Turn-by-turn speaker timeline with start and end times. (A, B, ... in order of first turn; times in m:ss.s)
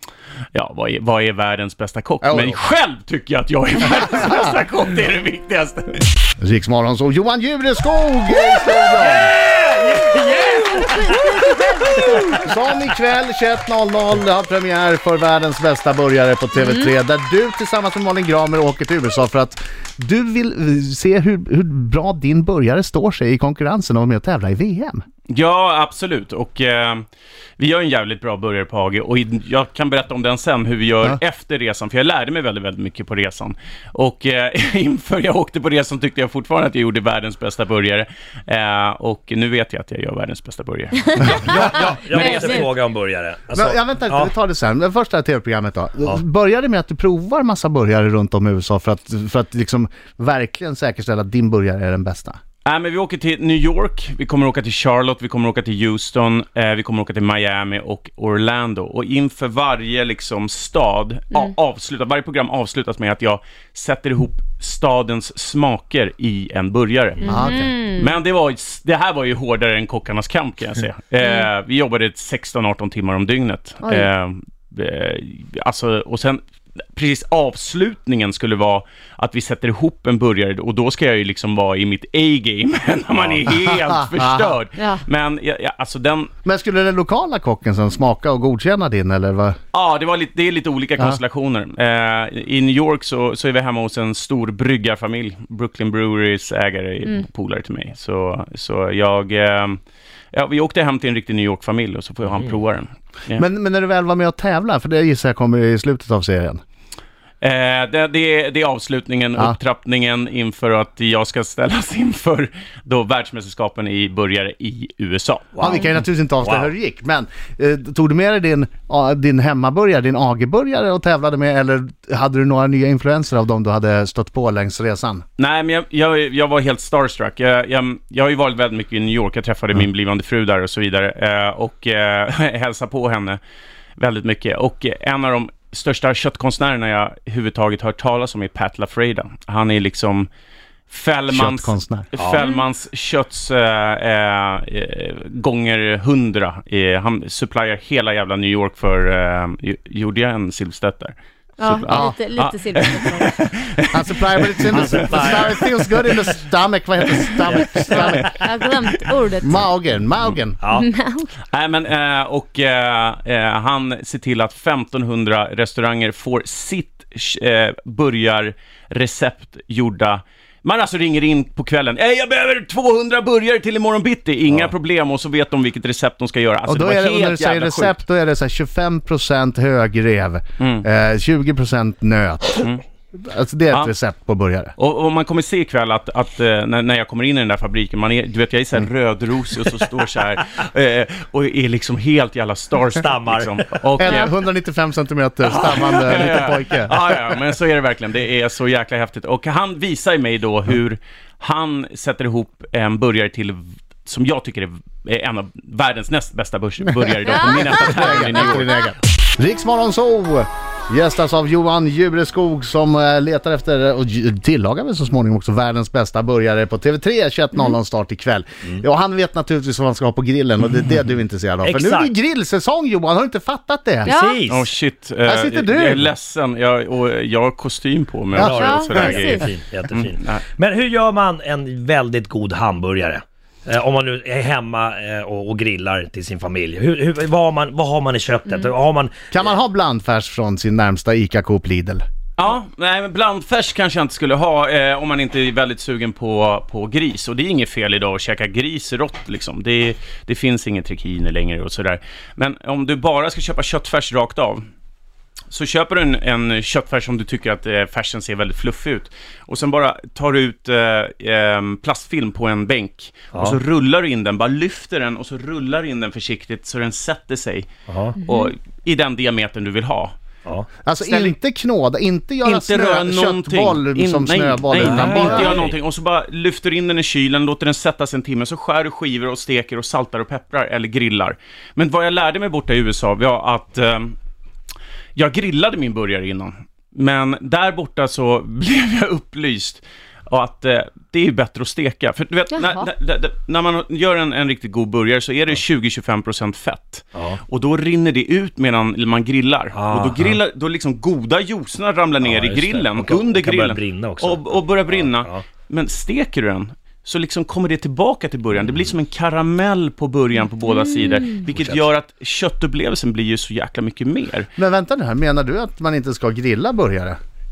0:00.5-0:06.1 A
0:02.2-0:02.6 B
0:06.4-0:09.3 B
0:08.3-0:12.2 C
0:10.4-0:12.4 D
0:12.4-0:25.0 B
0:16.6-0:16.9 D
0:25.3-0:27.0 A
0:27.6-0:42.7 A
0:41.2-0:41.5 B
0:41.2-0:44.3 C
0:42.2-0:42.6 D
0:43.5-0:52.4 B
0:52.6-1:07.3 A
1:07.2-1:08.1 D
1:07.3-1:07.7 B
1:08.0-1:16.4 A
1:11.2-1:11.5 D
1:13.8-1:14.1 D
1:16.9-1:26.3 A
1:23.2-1:24.5 B
1:26.4-1:29.6 B
1:29.7-1:39.8 A
1:40.3-1:43.4 A
1:43.4-1:46.6 B
1:47.4-1:55.8 A
1:55.6-1:55.8 C
1:55.6-2:05.2 B
1:56.4-1:56.7 C
2:05.4-2:13.4 A
2:14.0-2:20.3 A
2:20.9-2:36.1 A
2:21.3-2:22.1 B
2:22.2-2:22.4 C
2:22.4-2:22.6 D
2:31.6-2:33.4 D
2:31.9-2:32.2 B
2:33.9-2:38.4 B
2:34.7-2:35.6 C
2:37.9-2:39.6 D
2:39.4-2:40.6 B
2:40.6-2:40.9 C
2:40.7-2:41.4 D
2:41.5-2:58.0 A
2:56.6-3:02.6 B
3:00.6-3:00.8 A
3:03.1-3:04.7 B
3:04.8-3:14.3 A
3:13.0-3:13.8 C
3:14.0-3:17.0 B
3:14.0-3:14.3 D
3:15.4-3:28.7 A
3:26.9-3:44.1 B
3:27.2-3:28.7 D
3:41.6-3:42.1 C
3:44.0-3:44.7 C
3:44.0-3:44.4 D
3:44.5-3:50.4 A
3:45.2-3:46.1 B
3:48.4-3:59.2 C
3:48.5-3:49.4 D
3:59.3-4:02.0 B
4:02.4-4:14.6 A
4:15.5-4:27.7 A
4:23.3-4:23.6 C
4:27.9-4:28.2 C
4:28.2-4:28.5 D
4:28.2-4:30.1 A
4:30.8-4:35.6 B
4:31.0-4:31.3 A
4:32.4-4:44.1 A
4:34.7-4:35.7 C
4:45.2-5:14.5 A
4:52.5-4:52.9 D
4:57.1-4:57.4 C
4:59.7-5:00.4 C
5:02.2-5:05.4 C
5:10.7-5:11.2 D
5:11.5-5:11.8 C
5:14.6-5:17.2 B